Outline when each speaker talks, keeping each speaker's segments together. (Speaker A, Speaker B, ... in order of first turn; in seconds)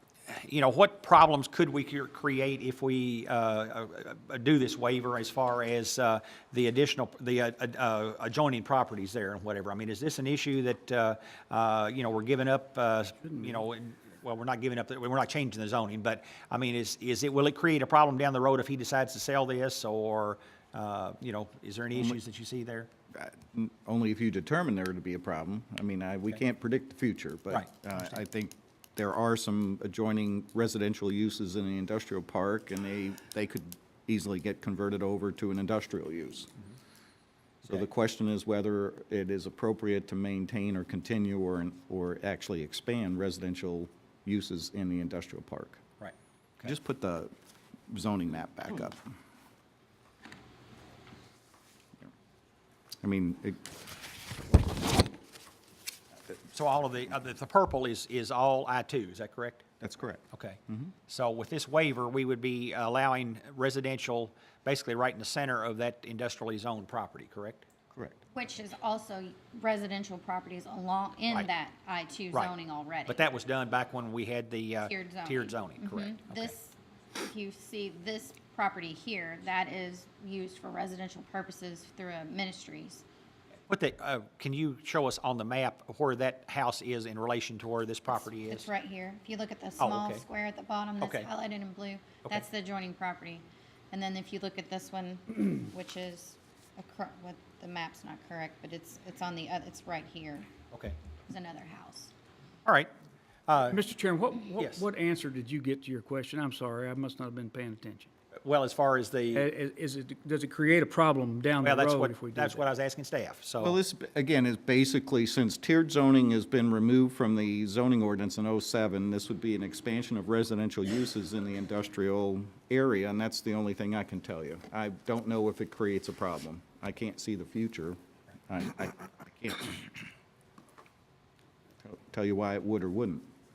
Speaker A: 0.3-22.9, 27.5-28.1, 46.0-46.8, 56.5-59.6, 60.3-67.6, 73.1-76.5, 83.7-88.7, 89.8-90.2, 91.0-91.3, 100.7-101.0, 102.7-102.9, 103.5-103.8, 108.4-109.5, 111.6-113.8
Speaker B: 13.3-13.6, 103.7-108.1, 109.3-112.6
Speaker C: 23.1-36.5, 37.7-45.8, 46.6-47.3, 47.9-49.0, 53.0-53.6, 59.8-60.9, 113.6-130.0, 131.8-133.3
Speaker D: 68.3-73.3, 74.8-83.0, 88.1-100.5, 101.3-102.1